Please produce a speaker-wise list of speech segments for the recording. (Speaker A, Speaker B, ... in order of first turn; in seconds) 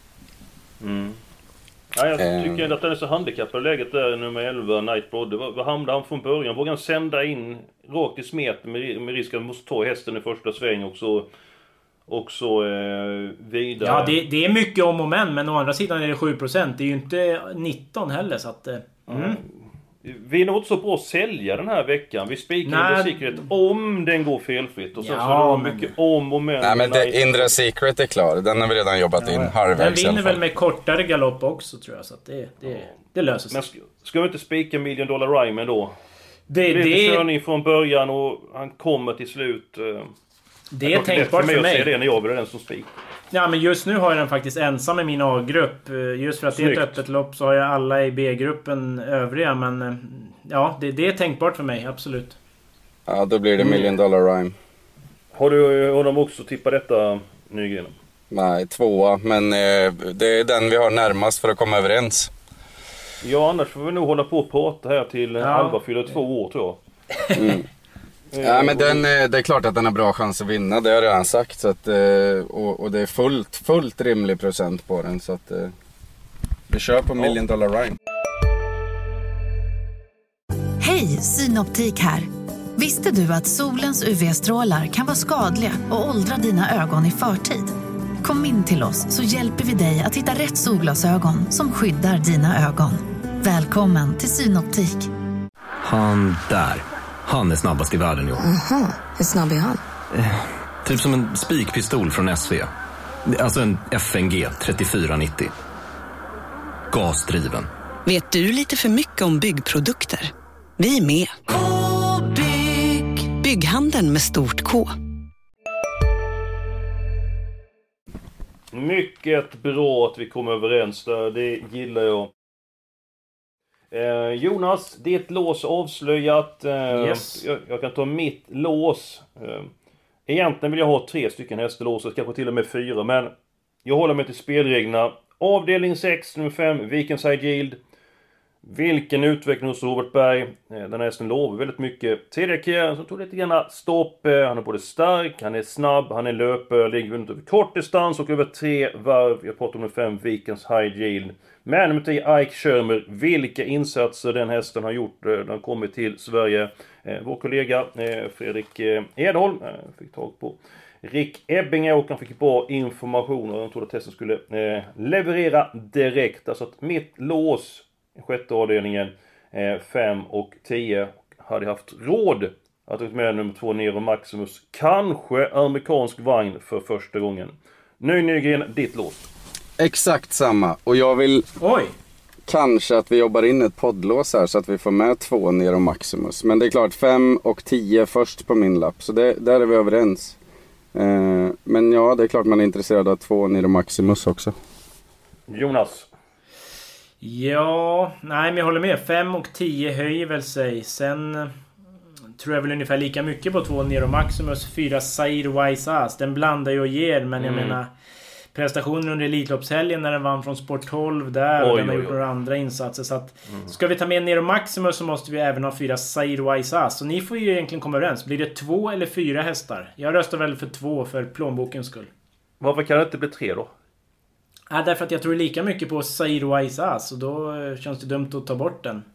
Speaker A: 0.8-1.2, 1.9-11.3, 12.1-14.2, 19.1-27.6, 33.5-36.0, 36.7-40.1, 40.8-42.9, 46.5-47.0, 53.6-53.9, 55.3-57.9, 63.2-66.8, 68.3-69.0, 118.7-122.3, 123.9-129.7, 130.3-133.3, 133.8-137.8, 138.6-179.2, 195.5-196.1, 207.4-207.8, 211.6-212.2, 213.5-213.7, 222.6-223.7
Speaker B: 2.2-2.7, 26.6-30.4, 53.1-54.5, 58.3-62.3, 67.3-67.7, 68.4-75.7, 76.7-78.0, 179.8-181.5, 182.5-190.4, 190.9-194.5
Speaker C: 13.8-19.4, 22.6-23.4, 25.0-25.9, 29.2-33.6, 36.5-37.3, 40.7-41.9, 43.3-52.4, 65.4-65.8, 126.9-127.4, 181.6-181.9, 197.2-201.5, 202.4-207.9, 208.5-222.1, 224.7-229.1
Speaker D: 80.8-95.1
Speaker E: 95.8-98.4, 100.1-102.7, 103.3-105.5, 106.9-107.7
Speaker F: 108.0-114.9